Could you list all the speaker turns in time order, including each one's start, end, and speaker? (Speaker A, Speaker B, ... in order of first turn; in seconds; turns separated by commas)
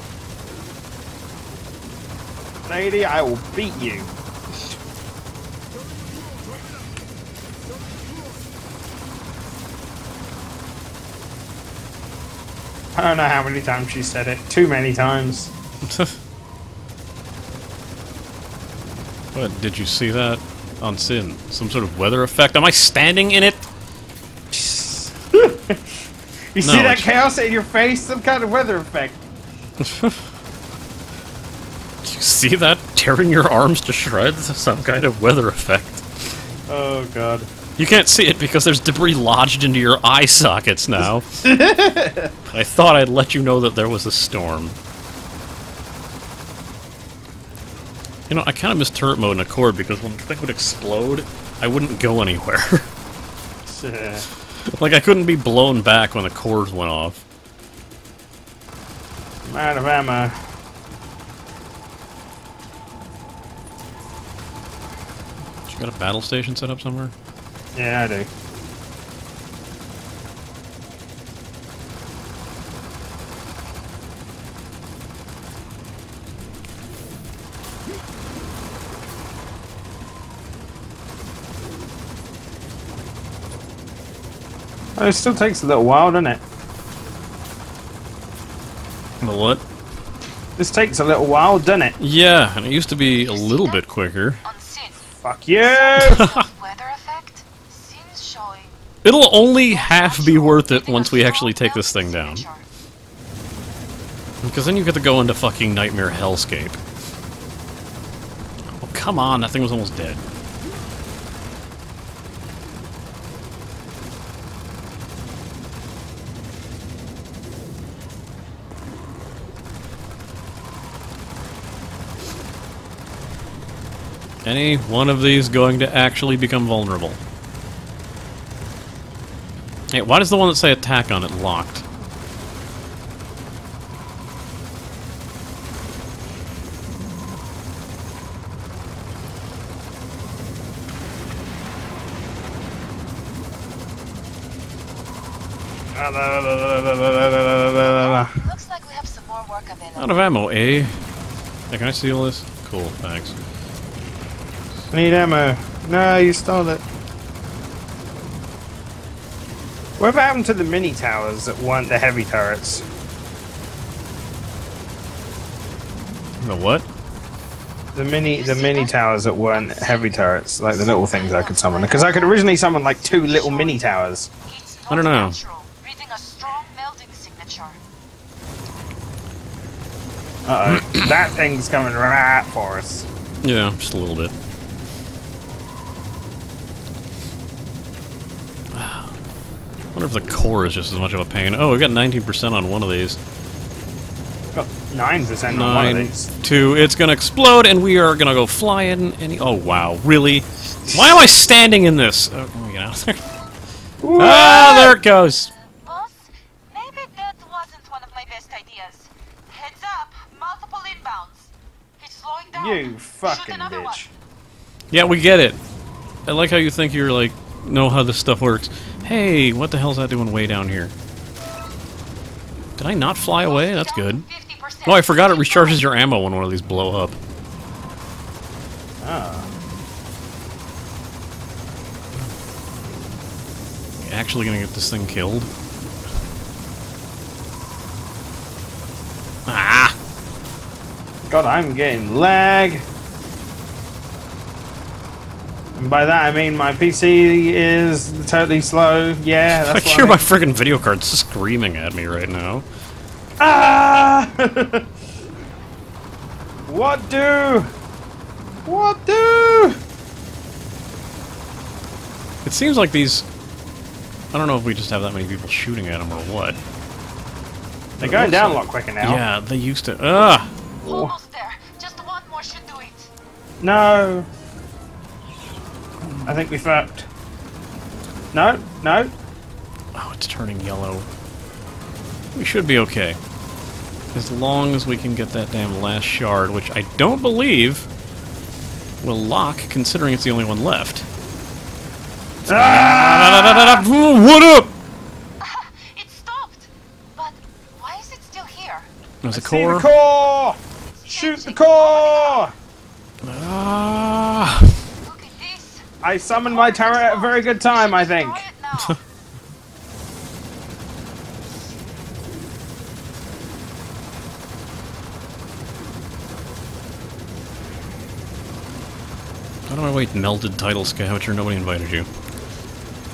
Speaker A: 2.6-4.1, Speaker A: 12.9-15.5, Speaker B: 15.9-16.1, Speaker B: 19.3-23.7, Speaker A: 24.5-26.0, Speaker A: 26.5-29.2, Speaker B: 26.6-27.1, Speaker B: 29.9-30.2, Speaker B: 32.0-36.0, Speaker A: 36.7-37.5, Speaker B: 37.8-41.4, Speaker A: 41.4-42.3, Speaker B: 42.5-44.8, Speaker B: 48.3-52.9, Speaker A: 53.7-54.3, Speaker B: 54.6-57.2, Speaker A: 59.5-60.4, Speaker B: 65.7-67.1, Speaker A: 67.7-68.3, Speaker A: 85.0-86.4, Speaker B: 89.2-89.6, Speaker A: 90.6-92.0, Speaker B: 92.0-94.4, Speaker C: 93.0-93.8, Speaker C: 94.5-94.9, Speaker A: 95.2-96.3, Speaker C: 95.8-98.7, Speaker B: 96.0-96.5, Speaker B: 99.0-102.5, Speaker C: 99.7-102.6, Speaker B: 104.4-106.8, Speaker B: 108.8-110.2, Speaker B: 124.5-127.2, Speaker B: 129.9-131.8, Speaker A: 145.9-148.4, Speaker C: 148.0-150.2, Speaker B: 150.0-151.0, Speaker B: 151.7-153.3, Speaker A: 154.9-156.8, Speaker A: 160.0-162.9, Speaker B: 166.4-166.9, Speaker A: 167.9-174.3, Speaker C: 168.3-168.9, Speaker C: 169.6-170.1, Speaker C: 171.1-172.5, Speaker C: 173.2-173.7, Speaker C: 174.5-177.8, Speaker B: 174.9-175.4, Speaker A: 180.4-183.1, Speaker B: 183.4-184.3, Speaker B: 188.7-189.2, Speaker B: 189.9-193.2, Speaker A: 194.5-196.3, Speaker B: 195.5-203.2, Speaker A: 204.0-205.0, Speaker B: 204.2-205.5, Speaker C: 205.6-213.9, Speaker A: 212.5-214.1, Speaker B: 214.9-215.6, Speaker B: 216.3-220.9, Speaker B: 222.8-224.3, Speaker C: 223.5-225.8, Speaker B: 224.8-227.2, Speaker A: 229.0-229.5, Speaker B: 234.0-235.5, Speaker B: 239.5-240.0, Speaker A: 241.3-242.8, Speaker A: 245.8-250.3, Speaker B: 249.5-252.7, Speaker A: 253.4-254.9, Speaker A: 256.7-257.7, Speaker A: 258.6-259.8, Speaker B: 262.4-263.3, Speaker B: 264.3-266.6, Speaker A: 268.0-269.2, Speaker B: 268.0-270.5, Speaker A: 270.8-271.1, Speaker C: 270.9-273.1, Speaker A: 273.6-274.3, Speaker A: 276.2-277.1, Speaker A: 278.3-279.1, Speaker B: 279.9-281.1, Speaker B: 282.4-283.2, Speaker B: 284.1-287.9, Speaker B: 289.0-291.1, Speaker B: 292.4-294.7, Speaker A: 292.5-293.9, Speaker C: 295.4-298.9, Speaker B: 299.2-299.9, Speaker A: 299.3-302.5, Speaker C: 300.9-302.5, Speaker B: 303.2-304.8, Speaker C: 305.0-305.9, Speaker A: 306.0-308.5, Speaker C: 306.5-309.0, Speaker B: 319.7-322.1